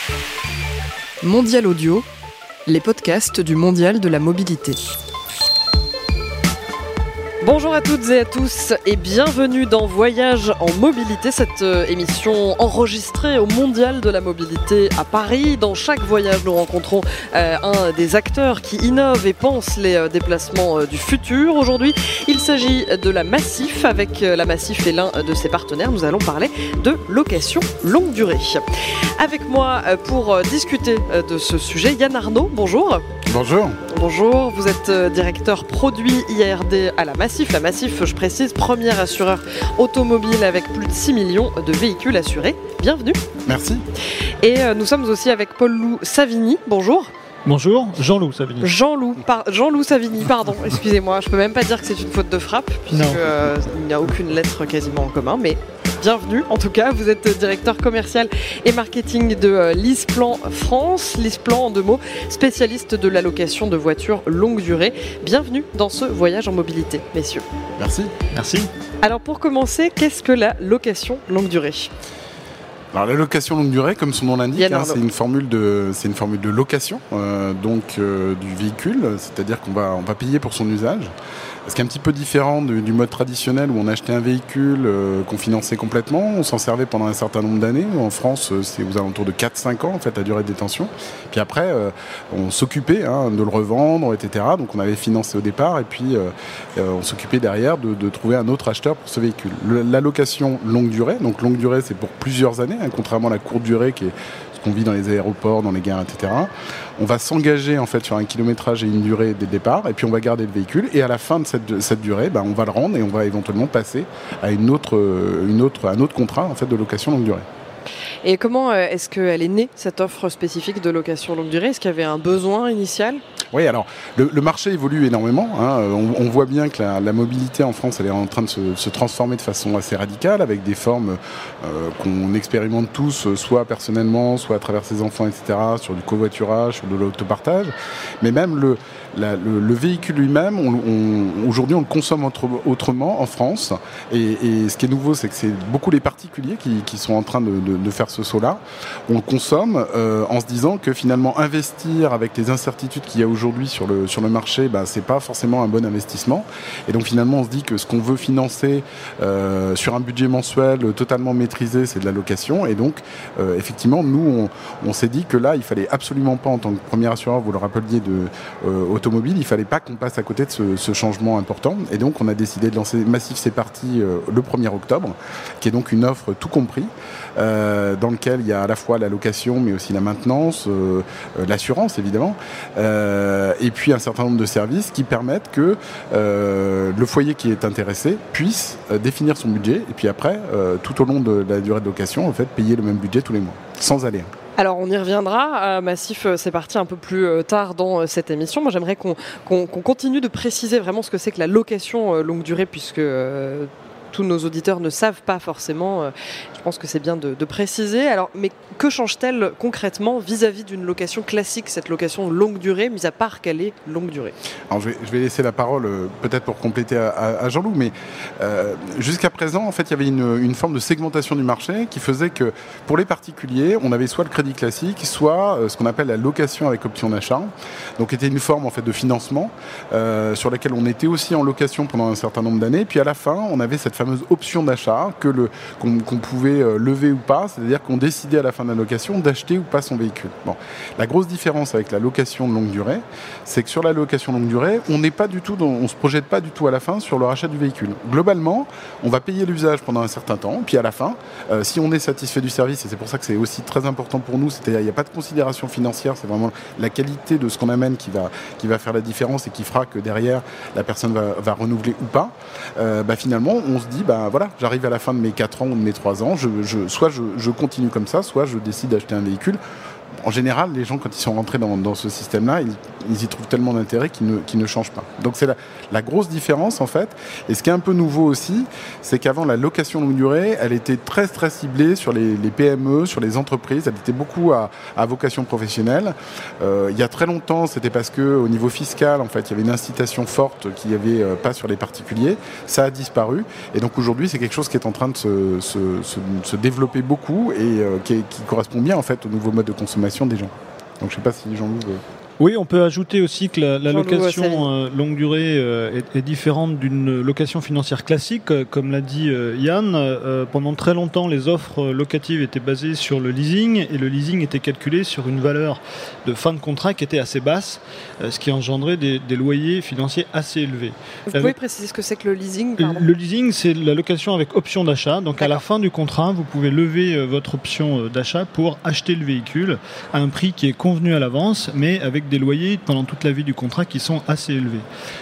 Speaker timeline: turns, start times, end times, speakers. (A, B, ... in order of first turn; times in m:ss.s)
0:01.2-0:02.0 A
0:02.6-0:04.8 A
0:07.4-0:33.0 A
0:33.2-0:33.8 B
0:33.9-0:43.2 A
0:43.5-0:43.8 B
0:44.4-0:47.1 A
0:47.4-0:48.7 C
0:48.6-1:07.4 A
0:52.9-0:53.2 C
1:07.8-1:08.1 B
1:08.3-1:08.7 C
1:09.0-1:11.9 A
1:12.9-1:21.1 B
1:14.6-1:15.0 A
1:21.6-1:57.4 B
1:58.2-2:03.2 A
2:03.5-3:14.3 B
3:14.6-3:34.4 A
3:34.7-4:29.6 B
4:30.2-5:02.0 B
5:02.4-5:21.5 C
5:03.9-5:04.7 A
5:21.3-5:23.1 A
5:22.8-5:34.8 C